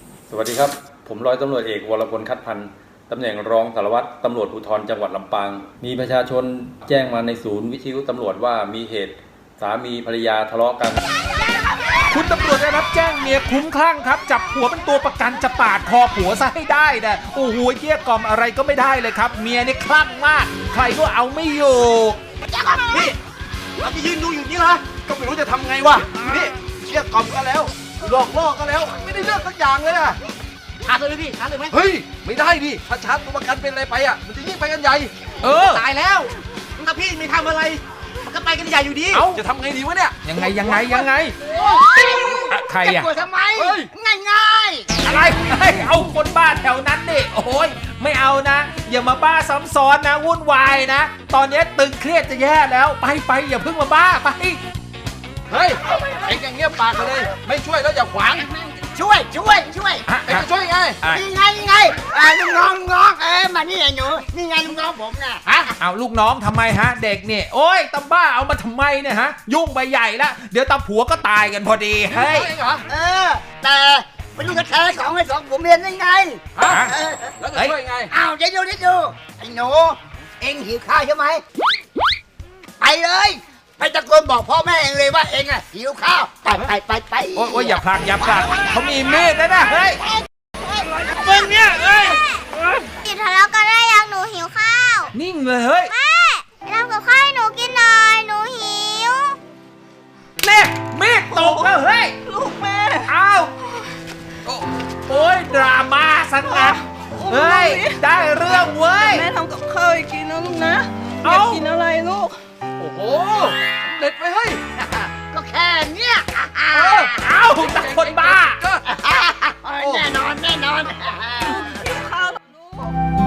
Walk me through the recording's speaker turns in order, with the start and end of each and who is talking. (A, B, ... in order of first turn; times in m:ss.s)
0:00.3-0:11.0 A
0:12.1-0:22.2 B
0:22.4-0:23.1 C
0:23.8-0:30.2 D
0:31.7-0:35.3 D
0:35.4-0:35.9 B
0:39.1-0:39.4 B
0:39.3-0:40.2 D
0:40.2-0:41.5 B
0:41.5-0:45.0 C
0:42.5-0:43.1 B
0:43.6-0:43.9 D
0:45.0-0:54.6 B
0:55.5-0:58.5 D
0:58.8-1:00.1 C
1:00.1-1:00.5 B
1:00.3-1:01.0 D
1:01.1-1:05.7 C
1:05.8-1:12.5 B
1:12.1-1:12.8 D
1:12.9-1:17.3 C
1:16.6-1:16.9 D
1:16.7-1:16.9 B
1:17.4-1:18.1 D
1:18.1-1:21.4 C
1:22.8-1:28.7 C
1:27.3-1:30.0 B
1:30.1-1:31.7 C
1:31.2-1:32.2 B
1:32.1-1:32.5 E
1:33.0-1:35.1 E
1:35.1-1:36.0 B
1:35.9-1:39.4 E
1:40.4-1:42.2 B
1:41.3-1:43.1 F
1:43.1-1:43.5 B
1:45.1-1:46.8 B
1:46.4-1:52.4 F
1:47.3-1:49.2 B
1:51.2-1:51.6 B
1:52.8-1:54.6 D
1:54.8-1:57.4 C
1:56.7-1:58.8 D
1:56.9-1:58.6 B
1:58.9-2:01.8 C
1:59.8-2:00.1 D
2:01.6-2:02.9 F